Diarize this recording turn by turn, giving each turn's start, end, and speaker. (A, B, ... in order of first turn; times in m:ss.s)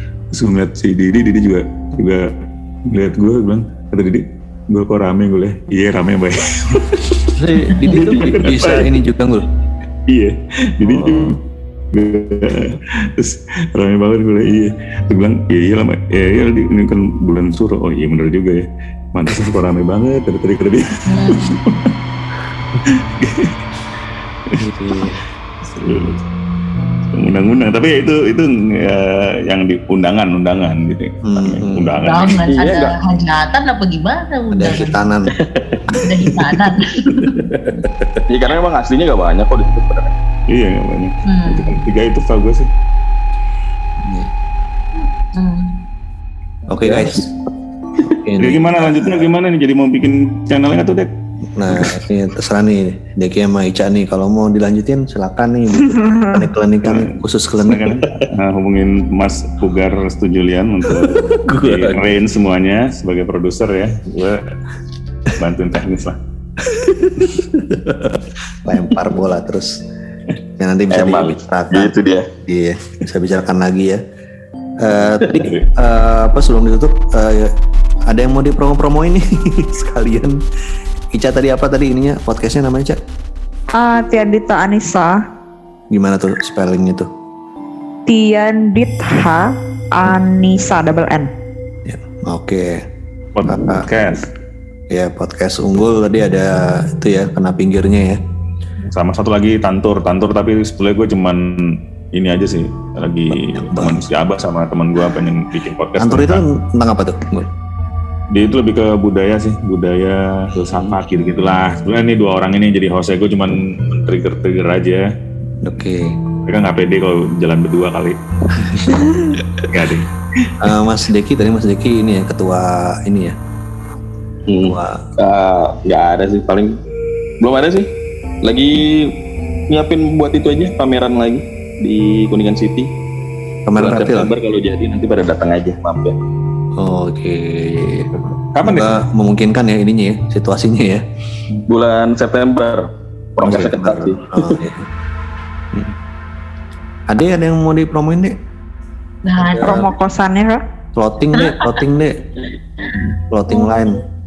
0:00.3-0:02.3 A
0:02.9-0:09.0 A
0:07.3-0:09.5 B
0:10.1-0:11.4 A
0:10.8-0:11.4 B
0:11.9-0:21.9 A
0:21.1-0:21.6 C
0:22.8-0:23.6 A
0:24.6-0:25.2 B
0:25.7-0:26.2 A
0:27.1-0:32.6 A
0:31.2-0:32.0 B
0:32.0-0:35.0 C
0:32.4-0:32.9 D
0:34.5-0:35.3 B
0:35.4-0:35.8 D
0:36.0-0:37.5 C
0:37.2-0:38.2 B
0:38.3-0:40.1 D
0:40.5-0:42.7 A
0:41.3-0:41.8 C
0:44.0-0:44.3 B
0:45.2-0:45.8 C
0:46.7-0:47.3 B
0:48.2-0:49.3 B
0:48.4-0:51.1 A
0:51.6-0:58.2 B
0:51.7-0:52.0 A
0:55.8-0:56.4 E
0:56.8-1:04.5 A
1:00.9-1:02.2 B
1:05.3-1:06.2 A
1:06.6-1:09.8 B
1:10.6-1:14.0 B
1:10.9-1:12.3 D
1:14.8-1:17.5 B
1:15.0-1:15.6 D
1:18.1-1:20.4 B
1:21.1-1:23.0 B
1:23.8-1:25.2 E
1:25.9-1:27.1 B
1:28.1-1:31.3 E
1:31.9-1:32.8 B
1:33.3-1:34.2 A
1:33.5-1:33.9 B
1:34.9-1:38.2 B
1:38.8-1:46.4 A
1:43.3-1:44.1 B
1:46.0-1:47.5 B
1:48.3-1:55.1 A
1:50.5-1:51.0 B
1:55.6-1:56.2 B
1:56.5-1:58.2 A
1:58.6-1:59.7 B
1:58.7-1:59.0 A
1:59.7-2:00.6 A
2:00.6-2:03.4 B
2:04.5-2:06.8 D
2:04.6-2:05.1 B
2:07.4-2:07.9 D
2:08.4-2:09.1 D
2:09.7-2:12.9 D
2:13.7-2:14.3 B
2:13.8-2:16.2 D
2:16.8-2:18.1 B
2:18.2-2:19.0 A
2:18.6-2:21.0 B
2:21.7-2:22.8 D
2:23.4-2:24.6 D
2:23.4-2:24.9 B
2:27.1-2:28.4 B
2:29.2-2:29.9 C
2:29.4-2:29.8 B
2:29.6-2:30.6 E
2:31.0-2:32.2 B
2:31.3-2:31.8 C
2:32.9-2:34.0 C
2:33.3-2:34.0 B